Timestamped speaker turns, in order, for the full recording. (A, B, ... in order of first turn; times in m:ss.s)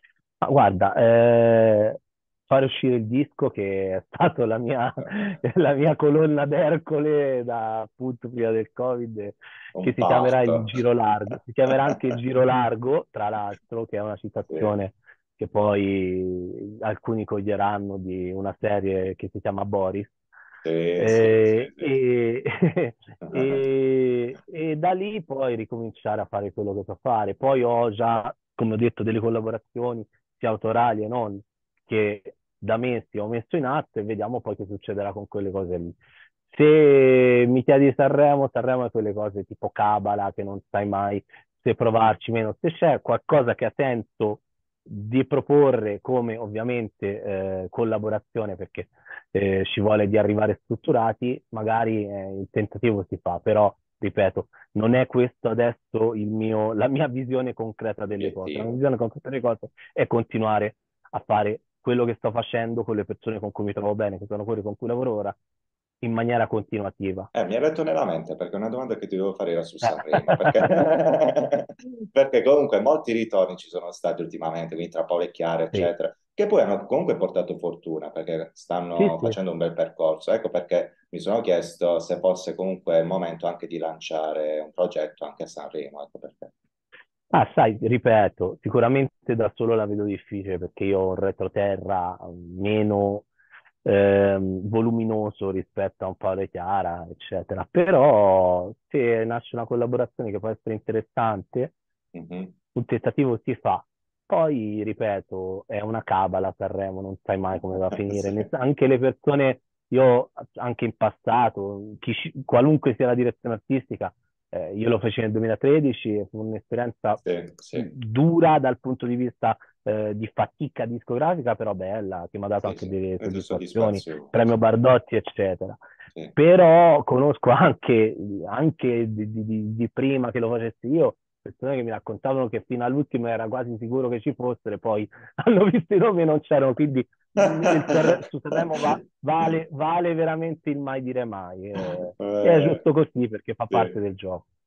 0:00.4-0:20.1 A
0:09.8-0:10.8 B
0:20.6-0:22.0 B
0:21.0-0:36.0 A
0:23.2-0:23.6 B
0:36.5-1:05.4 A
0:58.1-0:58.8 B
1:06.0-1:07.3 A
1:07.3-1:26.5 B
1:09.8-1:10.7 A
1:19.0-1:19.4 A
1:27.3-1:33.3 A
1:33.8-1:41.7 A
1:42.1-1:42.5 B
1:42.7-1:57.2 A
1:48.1-1:48.4 B
1:57.2-1:57.9 B
1:57.7-2:05.8 A
2:02.6-2:04.6 B
2:06.4-2:24.4 A
2:17.4-2:18.0 B
2:21.8-2:22.8 B